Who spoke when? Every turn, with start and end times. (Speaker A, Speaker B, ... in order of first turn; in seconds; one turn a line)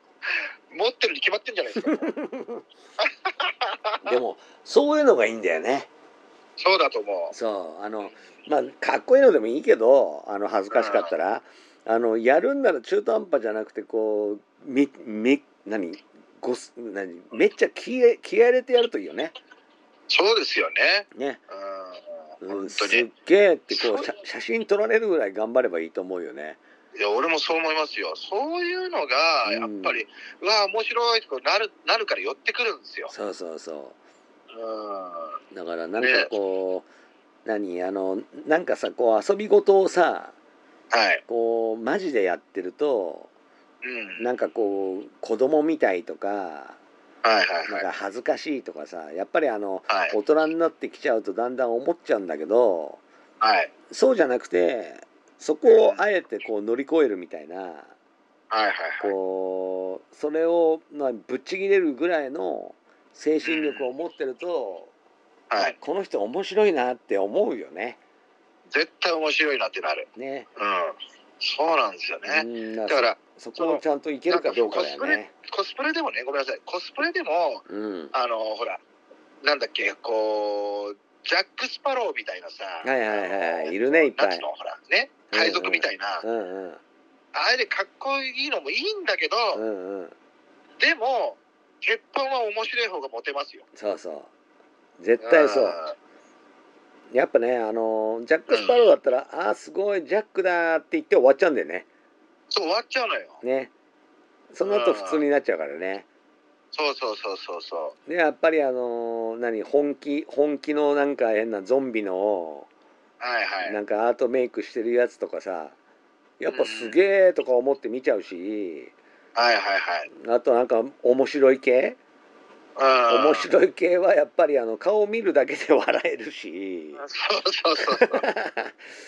Speaker A: 0.7-2.1
Speaker B: 1.8-2.6
Speaker A: 3.0-4.1
Speaker B: 4.0-5.9
Speaker A: 6.6-7.3
Speaker B: 7.3-19.3
Speaker A: 10.7-11.1
Speaker A: 20.1-23.1
Speaker B: 21.1-21.4
Speaker B: 22.4-26.6
Speaker A: 23.7-24.1
Speaker A: 26.9-33.1
Speaker B: 29.5-30.0
Speaker B: 33.1-34.0
Speaker A: 34.5-35.4
Speaker B: 35.5-36.9
Speaker A: 36.0-36.3
Speaker B: 37.5-40.3
Speaker A: 40.9-41.2
Speaker B: 41.3-43.3
Speaker A: 43.8-44.3
Speaker B: 44.2-46.8
Speaker A: 47.2-47.9
Speaker B: 47.7-53.0
Speaker A: 49.9-50.1
Speaker A: 53.4-53.7
Speaker B: 53.9-57.9
Speaker A: 55.7-56.0
Speaker A: 58.5-59.1
Speaker B: 59.0-64.9
Speaker A: 63.4-63.9
Speaker A: 65.5-65.8
Speaker B: 65.6-68.0
Speaker A: 68.7-78.8
Speaker B: 70.2-70.5
Speaker B: 72.2-75.3
Speaker B: 77.7-78.1
Speaker A: 79.4-86.2
Speaker B: 82.8-84.5
Speaker B: 85.3-86.8
Speaker A: 87.3-89.6
Speaker B: 89.5-90.1
Speaker A: 90.8-93.7
Speaker B: 93.7-94.3
Speaker B: 95.0-95.8
Speaker A: 95.2-96.0
Speaker B: 97.1-101.9
Speaker A: 98.5-98.8
Speaker A: 102.5-103.4
Speaker B: 103.4-103.7
Speaker B: 104.5-106.1
Speaker A: 104.6-105.2
Speaker A: 106.7-108.0
Speaker B: 108.1-112.7
Speaker A: 113.2-113.8
Speaker B: 113.6-115.8
Speaker B: 116.4-118.9
Speaker A: 116.5-117.0
Speaker A: 119.4-120.1
Speaker B: 120.2-122.0
Speaker A: 122.8-123.5
Speaker B: 123.1-127.0
Speaker A: 127.0-128.2
Speaker B: 127.9-128.7